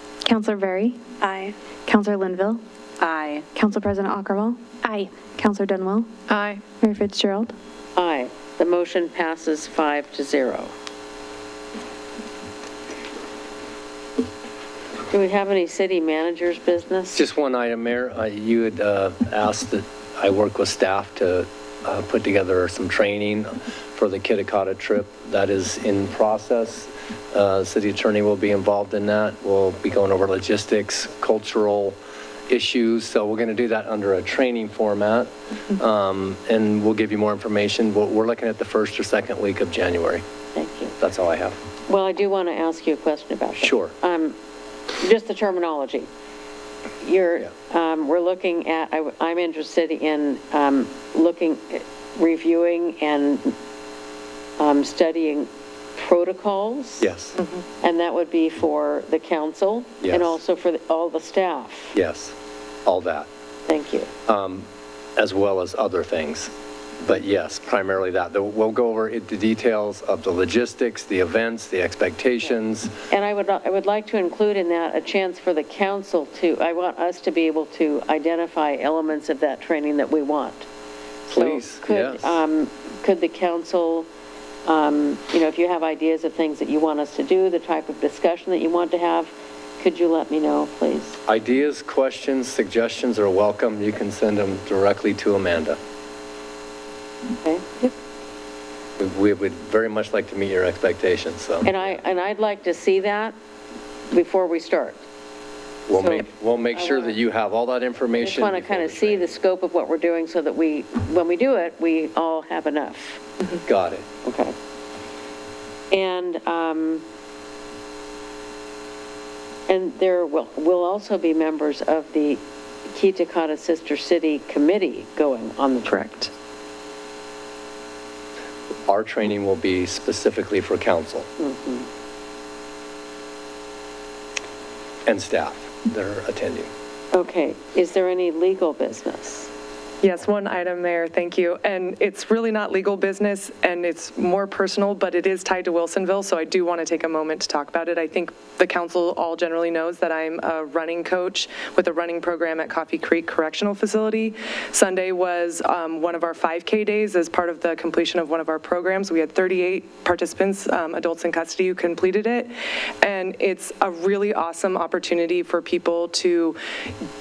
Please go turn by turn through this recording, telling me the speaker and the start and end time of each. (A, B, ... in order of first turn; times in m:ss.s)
0:00.3-0:07.5 A
0:08.0-0:10.7 B
0:15.1-0:17.3 B
0:17.2-0:32.0 C
0:32.5-0:40.2 C
0:40.6-0:41.0 B
0:41.0-0:41.6 C
0:41.9-0:44.4 B
0:43.6-0:43.9 C
0:45.0-0:46.1 B
0:47.0-0:53.6 B
0:54.6-0:57.1 B
0:57.0-0:57.4 C
0:57.8-1:02.0 B
1:00.0-1:00.4 C
1:01.9-1:02.3 C
1:02.9-1:03.3 C
1:03.7-1:04.1 B
1:04.3-1:04.6 C
1:05.2-1:06.5 C
1:07.0-1:12.9 C
1:13.1-1:20.7 B
1:21.3-1:24.1 B
1:21.3-1:22.4 C
1:24.6-1:31.2 B
1:31.3-1:35.8 C
1:37.4-1:37.7 B
1:39.0-1:41.8 C
1:41.6-1:43.4 B
1:44.1-1:45.0 B
1:45.9-1:49.3 C
1:45.9-1:47.2 B
1:48.2-1:53.2 B
1:53.7-1:54.1 C
1:54.2-1:54.6 B
1:55.9-1:57.0 B
1:59.7-2:06.1 B
2:05.8-2:06.3 D
2:08.9-2:11.3 C
2:11.4-2:11.9 B
2:15.1-2:16.7 C
2:17.1-2:19.5 B
2:20.0-2:46.6 D